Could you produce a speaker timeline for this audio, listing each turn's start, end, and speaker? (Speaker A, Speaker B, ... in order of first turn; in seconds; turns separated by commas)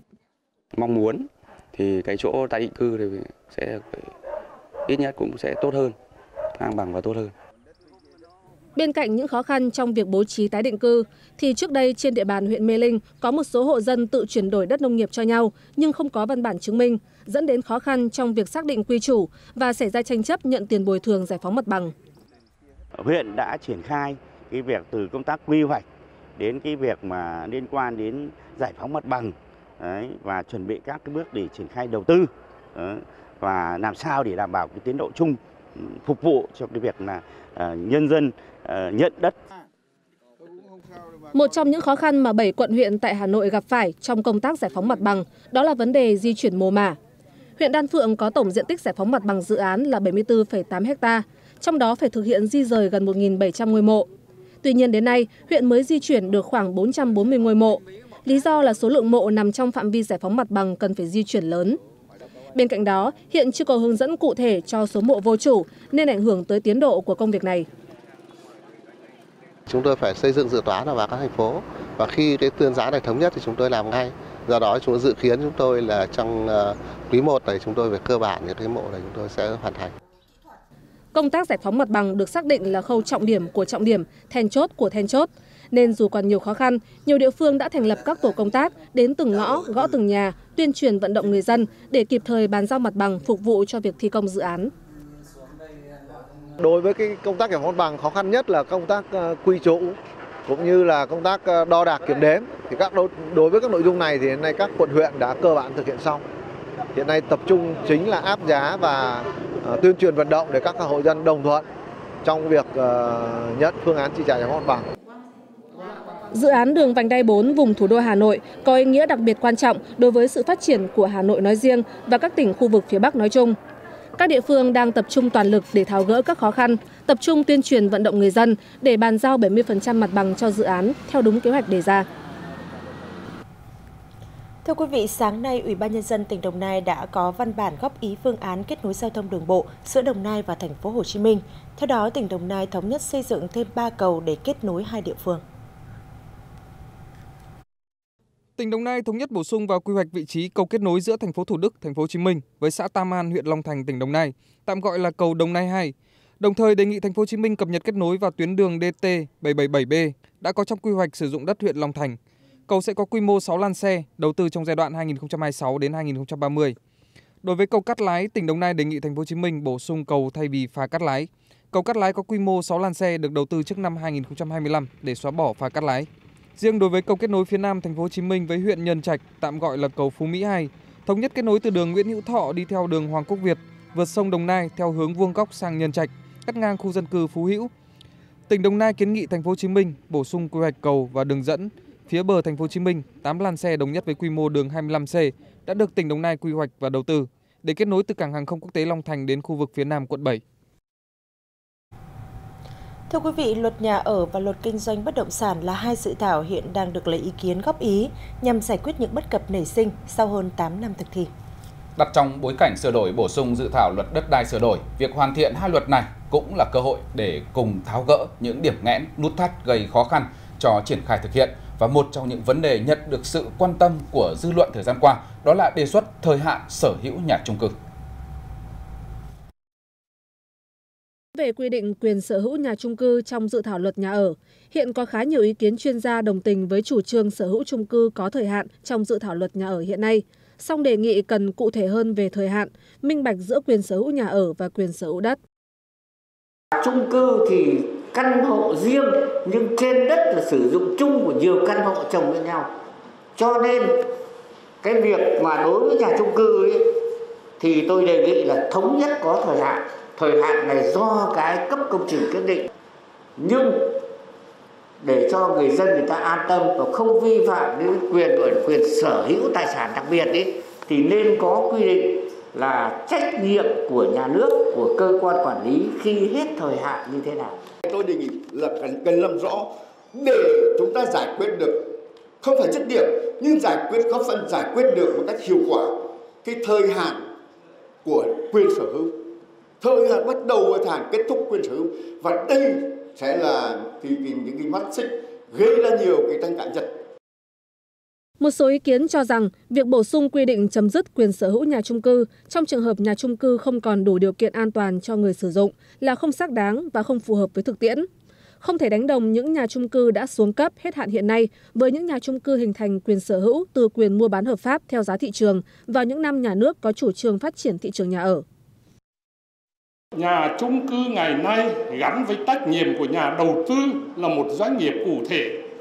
Speaker A: 0.7-4.1, Speaker A: 4.9-6.0, Speaker A: 6.6-7.3, Speaker B: 8.7-21.9, Speaker C: 22.9-25.8, Speaker C: 26.4-39.3, Speaker B: 41.3-47.0, Speaker B: 47.6-54.1, Speaker B: 54.6-61.8, Speaker B: 62.5-67.7, Speaker D: 69.7-79.9, Speaker B: 81.1-94.7, Speaker E: 96.6-106.2, Speaker E: 107.0-111.6, Speaker E: 112.2-114.9, Speaker B: 116.3-123.6, Speaker B: 124.2-132.1, Speaker F: 134.6-145.4, Speaker G: 148.6-166.8, Speaker G: 167.4-187.7, Speaker G: 188.5-200.4, Speaker F: 203.1-211.3, Speaker H: 211.9-227.8, Speaker B: 231.3-245.4, Speaker I: 246.7-252.7, Speaker I: 253.3-254.1, Speaker I: 254.8-256.9, Speaker I: 257.6-262.7, Speaker I: 263.4-264.0, Speaker I: 265.0-277.6, Speaker J: 277.8-281.8, Speaker J: 282.4-287.3, Speaker J: 288.0-289.2, Speaker J: 289.8-296.9, Speaker B: 298.4-308.1, Speaker B: 308.6-318.4, Speaker K: 320.1-325.6